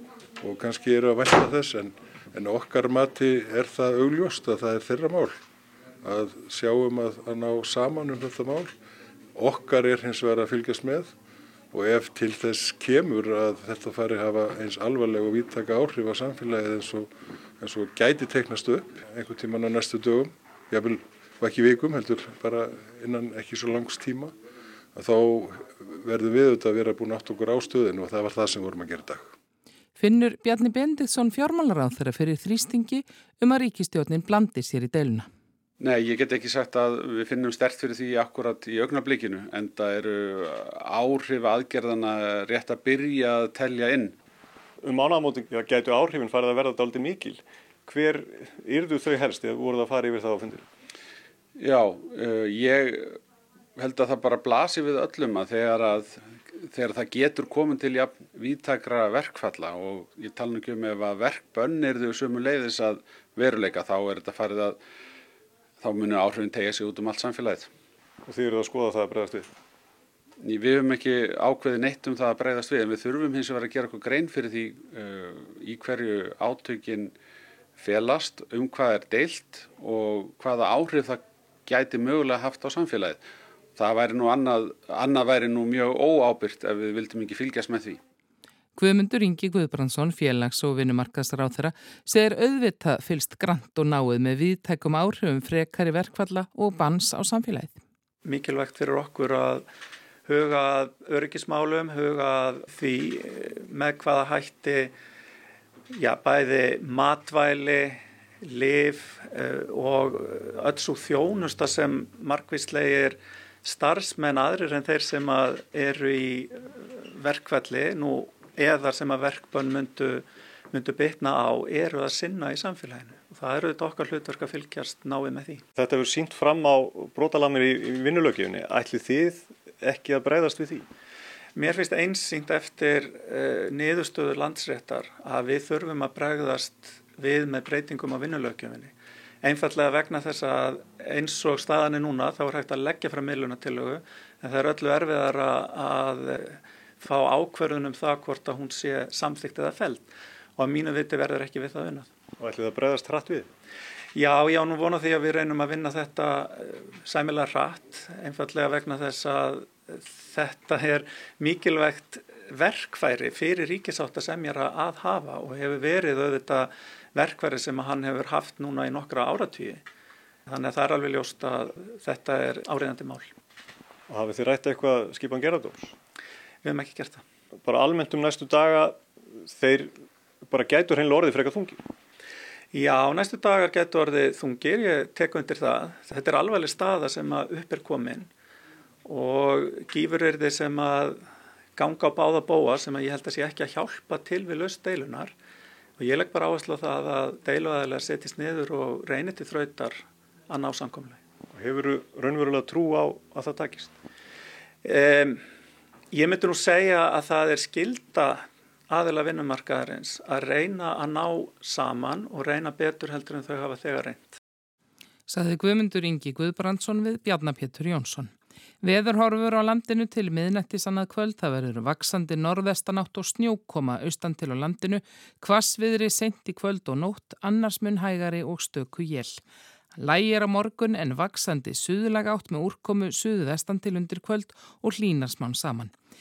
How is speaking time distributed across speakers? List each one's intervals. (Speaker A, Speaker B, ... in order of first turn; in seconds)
Speaker A: 0.4-5.4, 6.0-8.7, 9.3-11.1, 11.7-24.3, 24.9-29.3
Speaker B: 30.0-35.3, 88.8-97.8, 215.3-229.4, 229.9-235.9
Speaker C: 35.8-44.1, 51.6-53.2, 53.8-64.8, 65.8-67.7, 70.4-77.1, 77.8-83.2, 83.8-88.0
Speaker D: 44.8-50.6, 68.2-69.5, 125.7-130.9, 152.4-153.5, 174.1-175.9, 177.6-181.8, 201.5-203.9
Speaker E: 98.2-99.7, 100.2-104.9, 105.9-125.6, 131.5-152.1, 154.1-169.8, 170.5-173.3, 176.6-177.2, 182.7-188.3, 189.0-191.2, 191.8-195.3, 196.0-201.2, 204.8-205.4, 206.1-214.4